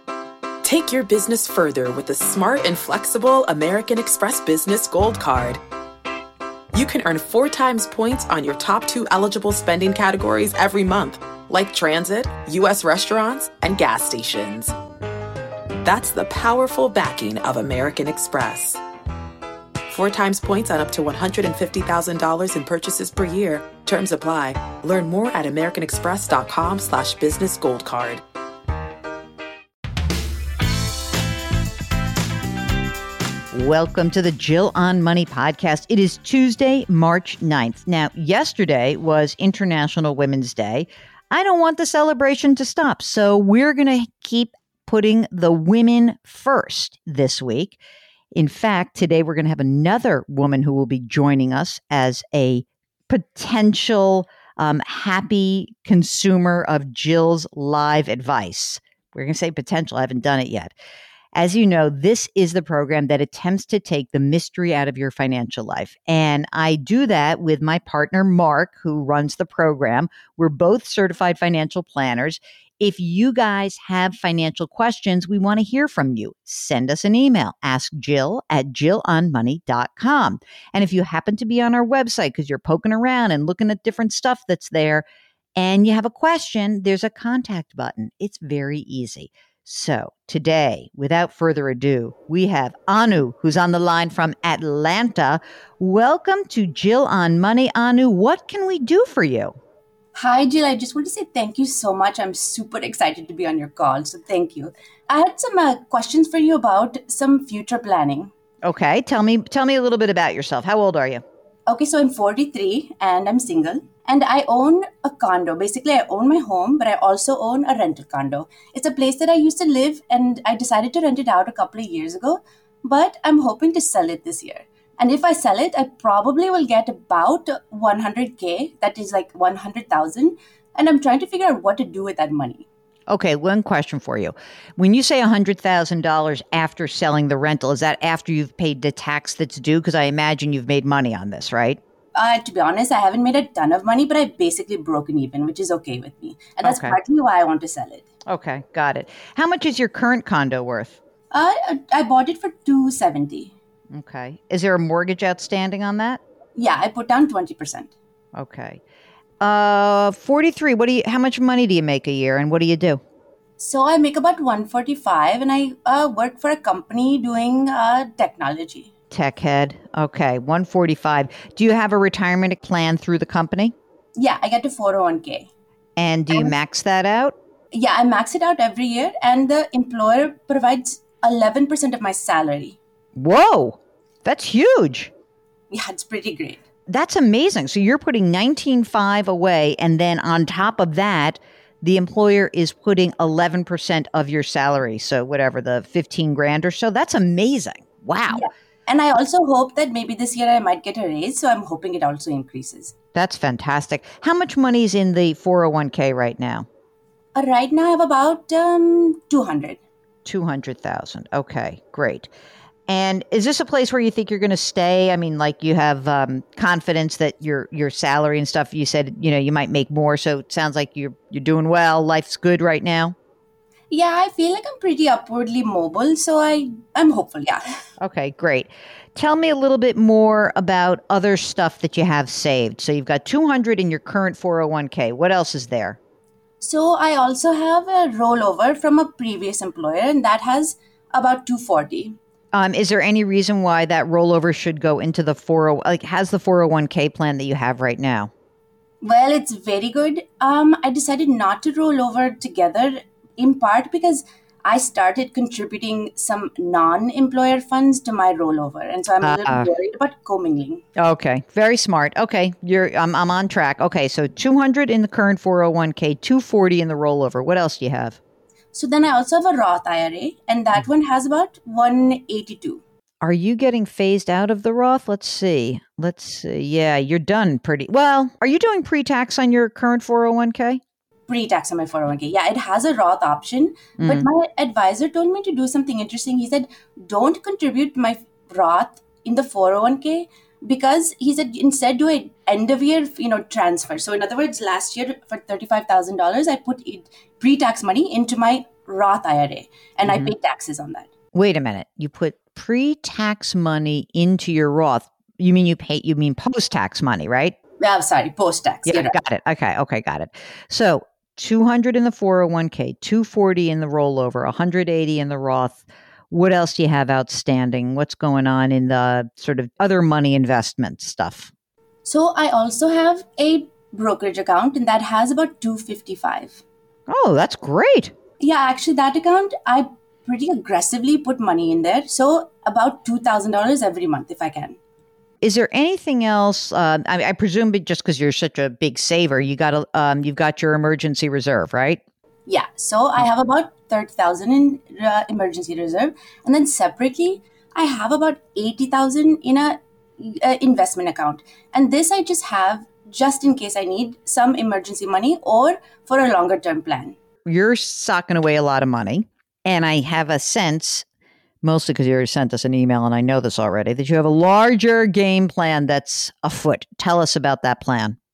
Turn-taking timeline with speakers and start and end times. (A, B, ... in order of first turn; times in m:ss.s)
0:00.6-0:05.6 A
0:06.7-0:14.7 A
0:15.8-0:18.8 A
0:19.9-0:28.2 A
0:33.5-0:47.8 B
0:48.3-1:00.7 B
1:01.3-1:25.0 B
1:25.6-1:39.6 B
1:40.1-1:48.3 C
1:48.6-1:51.2 B
1:51.7-2:12.6 C
2:13.1-2:21.8 B
2:22.1-2:28.0 C
2:26.6-2:27.0 B
2:28.2-2:31.0 B
2:31.3-2:33.5 C
2:33.9-2:36.2 B
2:36.6-2:37.9 C
2:38.4-2:38.8 B
2:39.4-2:43.0 B
2:43.6-2:48.9 C
2:49.1-2:53.7 B
2:54.2-2:55.5 C
2:56.0-2:57.4 B
2:57.7-3:02.8 C
3:03.2-3:05.1 B
3:05.7-3:06.6 C
3:06.9-3:18.4 B
3:18.3-3:22.9 C
3:23.1-3:26.7 B
3:27.3-3:29.8 C
3:30.2-3:32.3 B
3:32.9-3:43.2 B
3:43.9-3:47.6 C
3:48.0-3:56.0 B
3:56.6-4:02.2 C
4:02.5-4:08.3 B
4:09.0-4:20.8 C
4:19.2-4:19.7 B
4:21.0-4:28.2 B
4:28.7-4:32.8 C
4:33.2-4:40.8 B
4:41.3-5:01.1 C
4:44.0-4:44.3 B
5:00.0-5:00.3 B
5:01.3-5:07.5 B
5:07.8-5:09.2 C
5:08.9-5:21.5 B
5:22.0-5:26.6 C
5:27.1-5:28.1 B
5:28.4-5:34.8 C
5:35.4-5:42.0 B
5:42.5-5:57.2 C
5:57.4-6:01.0 B
6:01.6-6:08.2 B